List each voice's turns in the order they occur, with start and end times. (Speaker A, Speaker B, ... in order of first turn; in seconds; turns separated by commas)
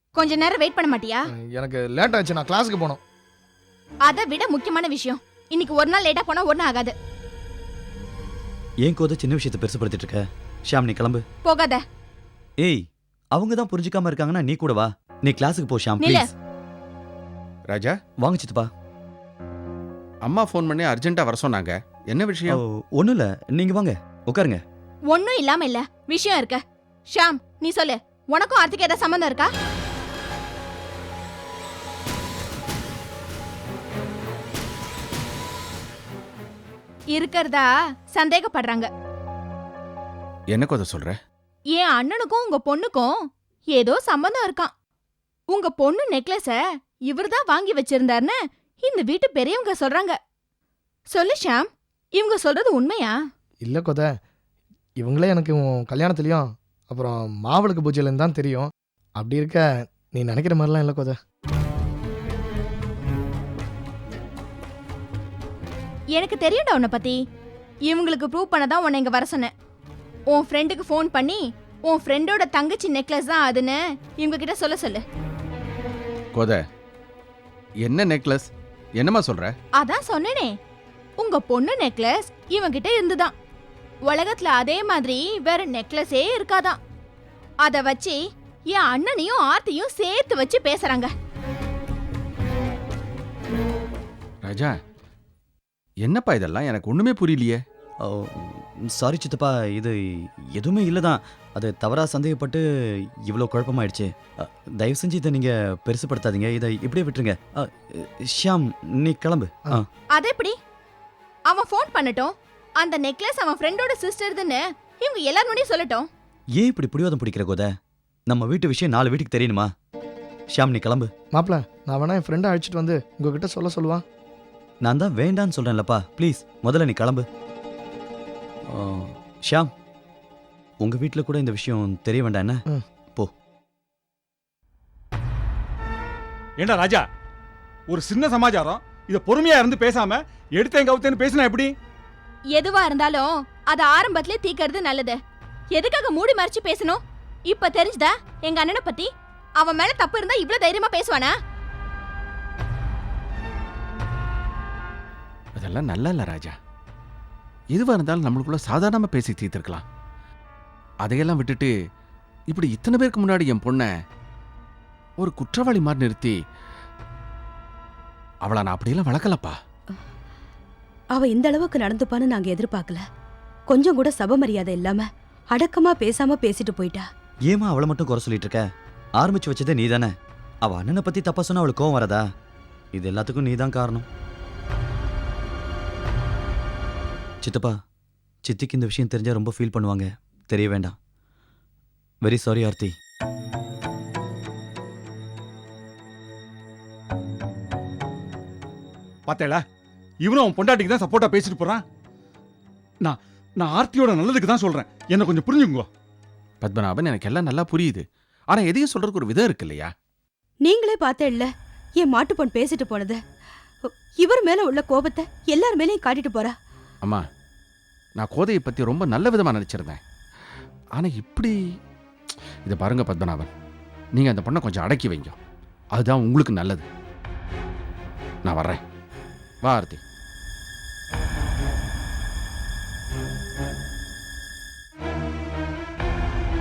Speaker A: 0.2-1.3, Speaker B: 1.3-3.0, Speaker A: 4.1-6.9, Speaker C: 8.8-11.2, Speaker A: 11.5-11.8, Speaker C: 13.3-16.3, Speaker A: 16.0-16.3, Speaker C: 18.2-18.7, Speaker D: 20.3-22.6, Speaker C: 22.5-24.6, Speaker A: 25.1-29.5, Speaker A: 37.1-38.9, Speaker D: 40.5-41.1, Speaker A: 41.8-43.1, Speaker A: 43.8-44.7, Speaker A: 45.5-46.6, Speaker A: 47.1-50.1, Speaker A: 51.1-53.1, Speaker B: 53.6-54.1, Speaker B: 55.0-61.2, Speaker A: 66.2-67.2, Speaker A: 67.9-69.5, Speaker A: 70.3-75.0, Speaker D: 77.9-78.4, Speaker D: 79.0-79.5, Speaker A: 79.8-80.5, Speaker A: 81.2-83.3, Speaker A: 84.1-86.8, Speaker A: 87.7-88.2, Speaker A: 88.7-91.1, Speaker D: 94.5-94.7, Speaker D: 96.1-97.6, Speaker C: 98.0-102.6, Speaker C: 103.3-109.8, Speaker A: 110.2-110.5, Speaker A: 111.5-116.1, Speaker C: 116.6-117.7, Speaker C: 118.3-119.7, Speaker C: 120.5-121.1, Speaker B: 121.3-124.0, Speaker C: 124.8-127.2, Speaker C: 128.7-129.7, Speaker C: 130.8-132.6, Speaker E: 136.6-137.0, Speaker E: 137.9-141.7, Speaker A: 142.6-145.2, Speaker A: 145.7-151.3, Speaker D: 155.6-156.5, Speaker D: 157.8-159.8, Speaker D: 161.1-161.7, Speaker D: 162.5-163.9, Speaker D: 165.2-166.3, Speaker D: 168.4-169.5, Speaker F: 171.2-173.0, Speaker F: 173.7-175.0, Speaker F: 175.5-177.0, Speaker C: 177.5-178.6, Speaker C: 179.2-180.1, Speaker C: 180.6-182.2, Speaker C: 182.9-184.1, Speaker C: 187.4-187.7, Speaker C: 188.4-190.9, Speaker C: 192.2-192.9, Speaker E: 199.3-199.6, Speaker E: 200.2-201.8, Speaker E: 203.1-205.8, Speaker D: 206.6-208.0, Speaker D: 208.5-209.9, Speaker F: 210.7-211.5, Speaker F: 212.0-213.2, Speaker F: 214.2-216.5, Speaker D: 218.2-220.0, Speaker D: 221.0-221.5, Speaker D: 222.7-223.5, Speaker D: 224.2-225.4, Speaker D: 226.0-226.8, Speaker D: 228.5-228.8, Speaker D: 229.7-230.0